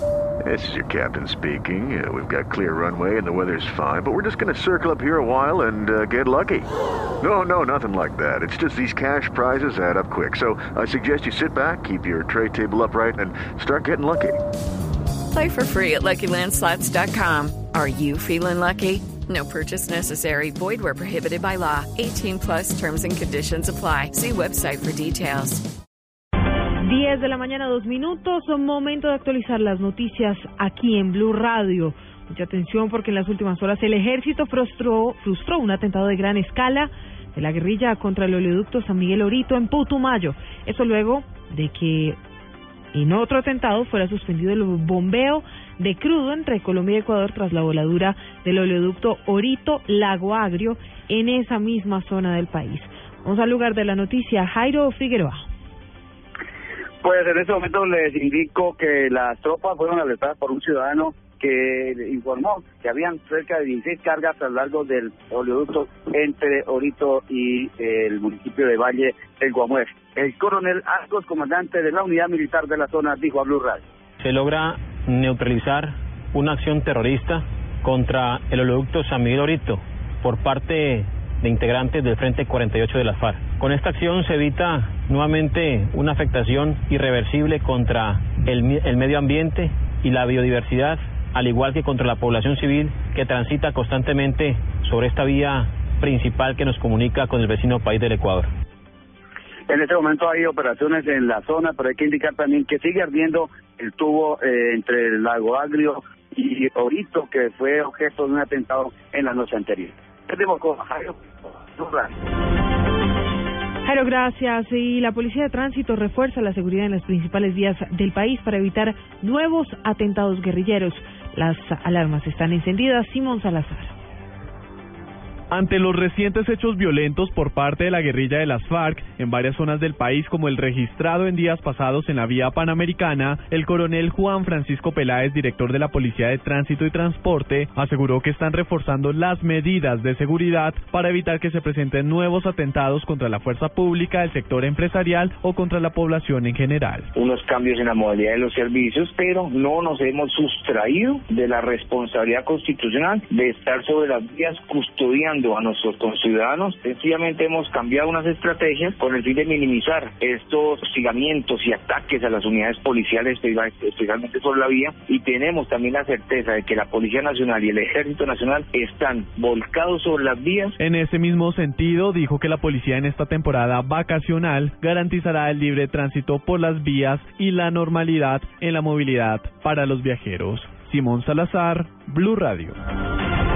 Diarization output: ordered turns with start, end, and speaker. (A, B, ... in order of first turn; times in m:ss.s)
0:00.4-0:06.7 A
0:07.2-0:14.4 A
0:15.3-0:25.6 B
0:26.8-0:42.2 C
0:42.9-0:55.4 C
0:57.0-1:13.8 D
1:14.2-1:38.5 E
1:39.7-1:52.1 D
1:53.8-2:03.9 C
2:05.5-2:27.1 F
2:27.2-2:50.7 G
2:50.8-3:02.8 F